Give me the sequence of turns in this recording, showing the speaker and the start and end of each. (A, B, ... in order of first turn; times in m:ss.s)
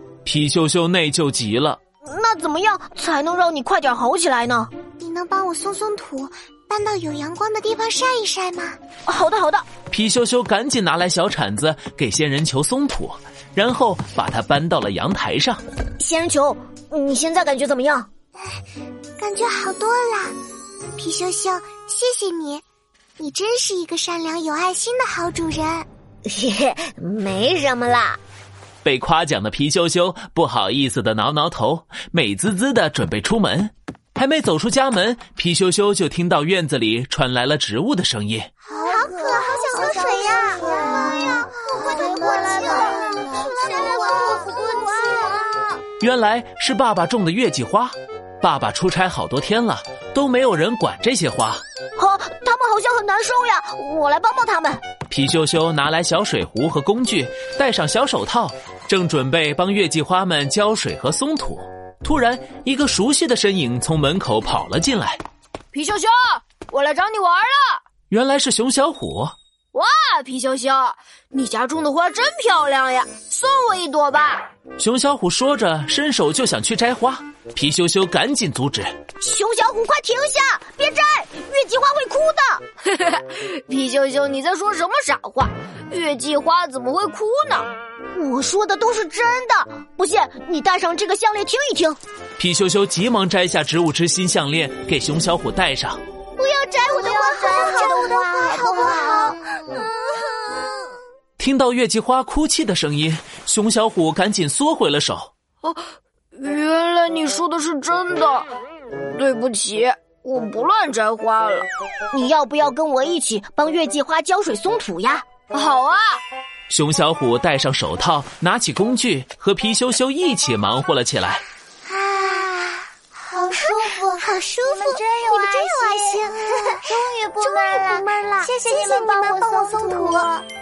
0:00.2-0:01.8 A
0:02.0-0:04.7 B
0:05.0-0:08.8 C
0:09.0-0:09.6 B
0:09.9-0:15.6 A
0:16.0-0:18.1 B
0:19.2-0:20.3 C
0:21.0-0:22.6 C
0:23.2-0:25.9 C
0:26.2-0:28.2 B
0:28.8-0:38.5 A
0:38.7-0:44.8 C
0:38.8-0:45.6 B
0:46.0-0:51.6 A
0:52.0-0:54.8 B
0:55.1-1:05.2 A
1:05.7-1:07.7 D
1:08.1-1:09.3 A
1:09.7-1:14.4 D
1:14.8-1:18.9 A
1:19.2-1:22.6 B
1:22.9-1:27.7 D
1:28.1-1:32.0 B
1:32.4-1:36.0 A
1:36.4-1:39.4 B
1:37.0-1:39.4 C
1:41.4-1:45.3 A
1:46.4-1:48.5 D
1:49.1-1:51.7 D
1:52.1-1:55.2 B
1:55.5-1:56.0 D
1:56.7-2:01.4 A
2:01.8-2:10.4 C
2:04.0-2:06.1 B
2:07.0-2:10.2 B